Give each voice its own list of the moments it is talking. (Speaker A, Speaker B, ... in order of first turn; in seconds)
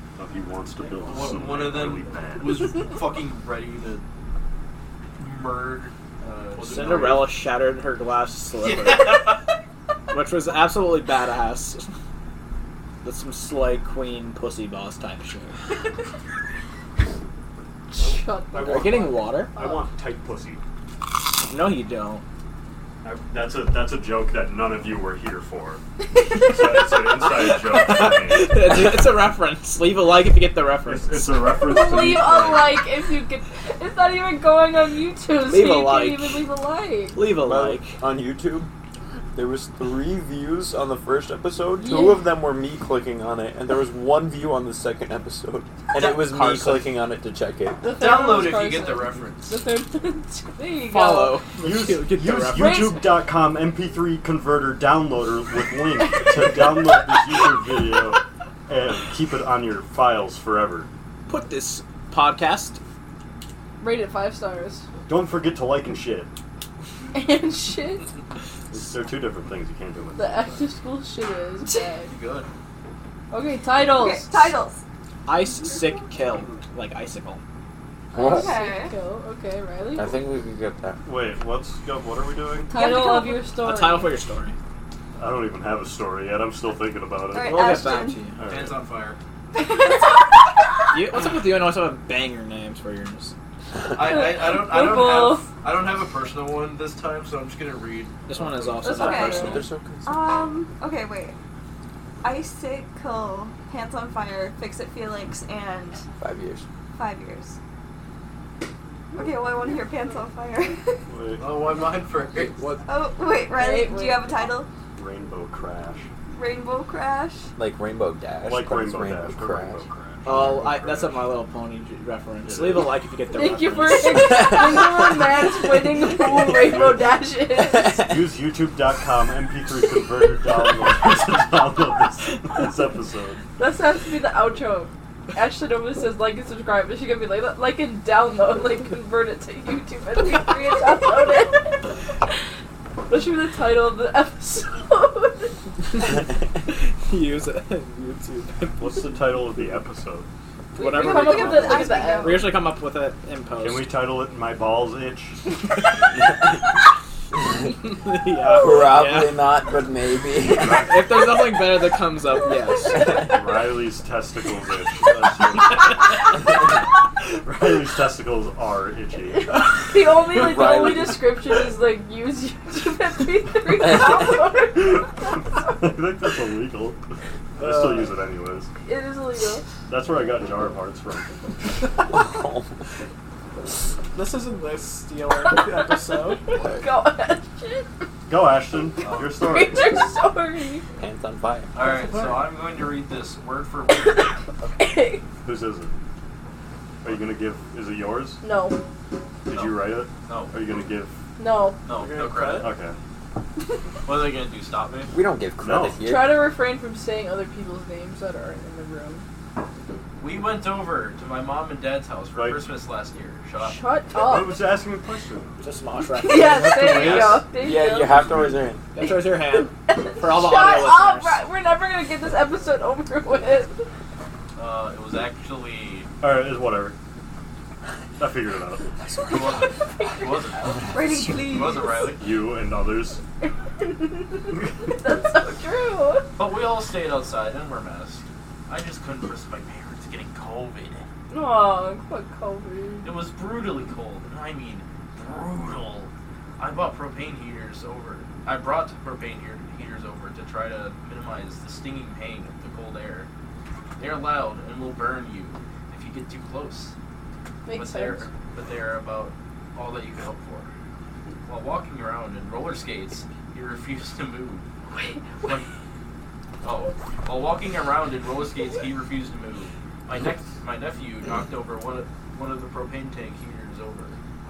Speaker A: 0.2-2.8, 18.5-20.6, 23.0-28.7, 30.9-32.8, 51.6-60.9, 65.1-66.3, 68.7-70.6, 81.0-82.7, 85.2-87.8, 88.4-88.8, 111.1-111.6, 115.0-116.1, 118.4-121.2, 122.4-123.0, 126.7-127.0, 127.9-133.4, 148.8-150.3, 153.6-155.5, 160.5-161.0, 163.1-166.3, 167.4-169.9, 174.8-177.0, 177.6-178.7, 179.8-181.4, 188.3-190.0, 195.4-195.9, 197.0-198.4, 199.5-201.2, 202.5-203.0, 205.6-206.0, 212.3-212.6, 214.2-215.5, 217.0-217.3, 218.1-218.7, 226.2-227.0, 228.2-228.9, 232.1-233.2
Speaker B: 0.9-4.0, 5.2-7.3, 8.7-9.4, 47.9-49.6, 72.1-72.5, 88.5-89.2, 93.9-99.0, 111.4-112.7, 189.0-189.3, 191.7-194.3, 199.5-200.6, 201.9-202.7, 204.0-205.1, 210.2-213.8, 224.6-226.1, 229.2-232.3, 236.4-241.1, 243.0-253.3, 254.0-256.9, 257.7-260.7, 261.4-264.6, 265.4-265.7, 266.6-274.2
Speaker C: 6.6-9.4, 10.1-11.9, 13.0-15.6, 18.6-19.5, 21.4-22.2, 27.2-31.4, 35.5-36.5, 37.1-38.0, 46.0-46.9, 50.8-53.0, 61.3-62.8, 75.2-77.4, 83.6-84.6, 87.4-88.4, 90.9-93.3, 98.2-99.7, 112.5-112.8, 120.2-124.5, 146.7-149.0, 150.8-153.9, 157.9-159.5, 160.8-163.0, 177.6-178.1, 184.1-186.4, 202.0-202.7, 215.6-217.4, 218.9-221.4
Speaker D: 17.9-19.9, 31.5-37.2, 41.8-42.2, 47.8-51.5, 52.5-53.3, 63.8-64.8, 67.1-68.1, 70.2-72.1, 73.3-74.6, 78.2-80.2, 82.7-84.2, 94.0-95.5, 98.8-99.7, 113.5-114.5, 123.3-128.1, 133.6-142.3, 143.1-145.6, 150.8-152.5, 169.3-175.4, 178.8-179.7, 185.5-187.9, 189.3-190.8, 194.0-195.3, 198.4-198.8, 201.4-201.8, 206.0-209.2, 213.6-214.6, 216.2-218.2, 219.0-223.8, 229.9-230.8, 233.8-236.3, 241.3-243.2, 257.6-258.3, 264.9-265.6
Speaker E: 37.4-38.7, 39.4-47.8, 78.1-78.5, 80.0-81.0, 99.5-100.4, 106.2-106.7, 117.6-119.8, 124.3-124.9, 158.5-160.9, 170.3-171.3, 182.1-182.7, 191.0-191.7, 205.1-206.5, 217.1-218.8
Speaker F: 73.8-74.8, 78.2-78.9, 82.7-83.5, 87.3-88.2, 89.6-90.1, 98.9-101.4, 102.2-106.0, 106.9-107.6, 109.1-111.0, 112.9-114.7, 116.3-117.5, 150.8-152.5, 230.9-232.1